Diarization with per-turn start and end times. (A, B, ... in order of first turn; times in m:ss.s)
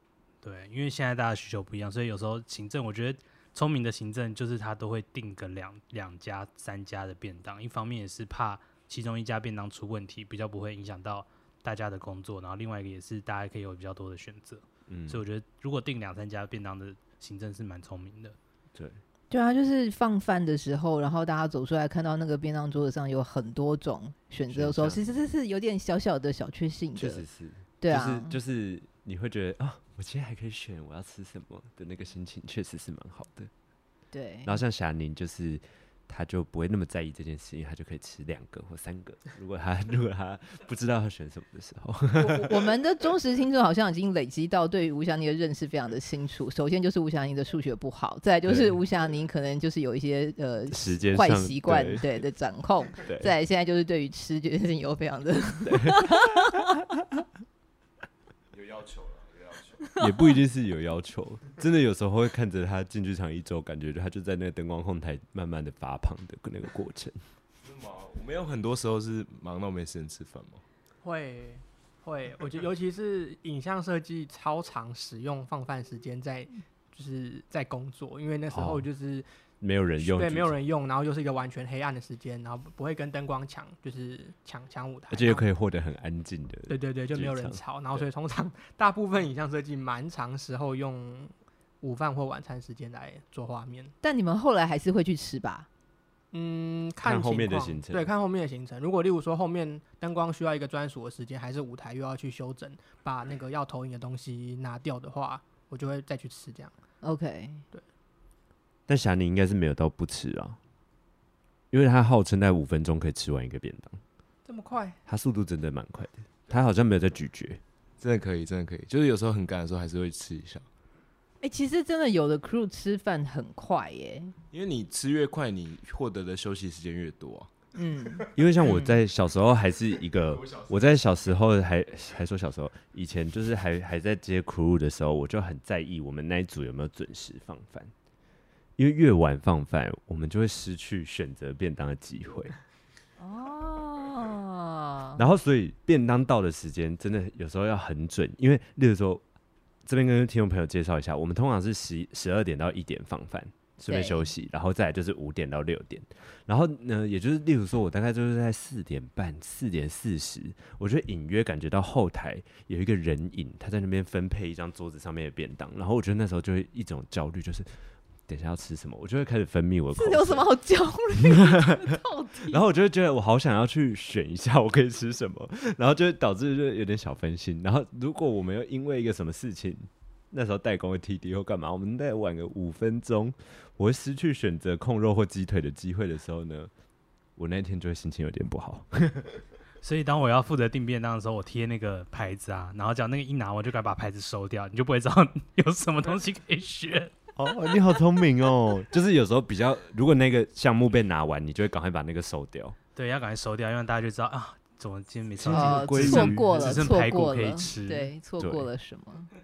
0:00.4-0:18.4 A
0:14.9-0:15.2 B
0:18.7-0:19.0 B
0:19.3-0:27.2 C
0:24.5-0:25.0 B
0:27.0-0:33.5 B
0:27.8-0:28.4 C
0:34.1-0:34.6 C
0:34.4-0:42.6 B
0:42.1-0:56.6 C
0:48.5-0:48.8 B
0:50.7-0:52.2 B
0:52.9-0:53.3 B
0:55.6-0:57.0 B
0:58.5-0:59.8 D
0:59.9-1:00.3 C
1:00.0-1:07.2 B
1:07.6-1:10.6 D
1:11.0-1:19.3 E
1:18.5-1:18.8 B
1:19.6-1:20.6 B
1:20.0-1:25.4 E
1:25.1-1:28.0 B
1:26.7-1:33.9 E
1:34.0-1:35.7 C
1:36.3-1:46.7 E
1:37.0-1:38.1 B
1:47.0-1:47.6 C
1:48.9-1:50.6 B
1:51.7-1:54.0 B
1:54.4-1:55.0 E
1:55.1-1:57.6 B
1:58.0-2:00.6 D
2:01.4-2:04.3 C
2:04.5-2:07.5 D
2:07.7-2:08.9 C
2:08.3-2:17.9 B
2:10.4-2:10.7 D
2:18.8-2:22.5 B
2:23.2-2:25.2 C
2:25.2-2:29.2 B
2:29.8-2:47.7 B
2:33.9-2:34.3 C
2:48.3-2:50.5 B
2:49.9-2:52.6 C
2:51.2-2:51.6 B
2:52.5-3:06.7 B
3:07.4-3:09.4 B
3:09.8-3:17.1 A
3:17.4-3:22.8 B
3:22.9-3:28.1 A
3:25.4-3:26.8 B
3:25.5-3:29.3 C
3:28.4-3:28.7 B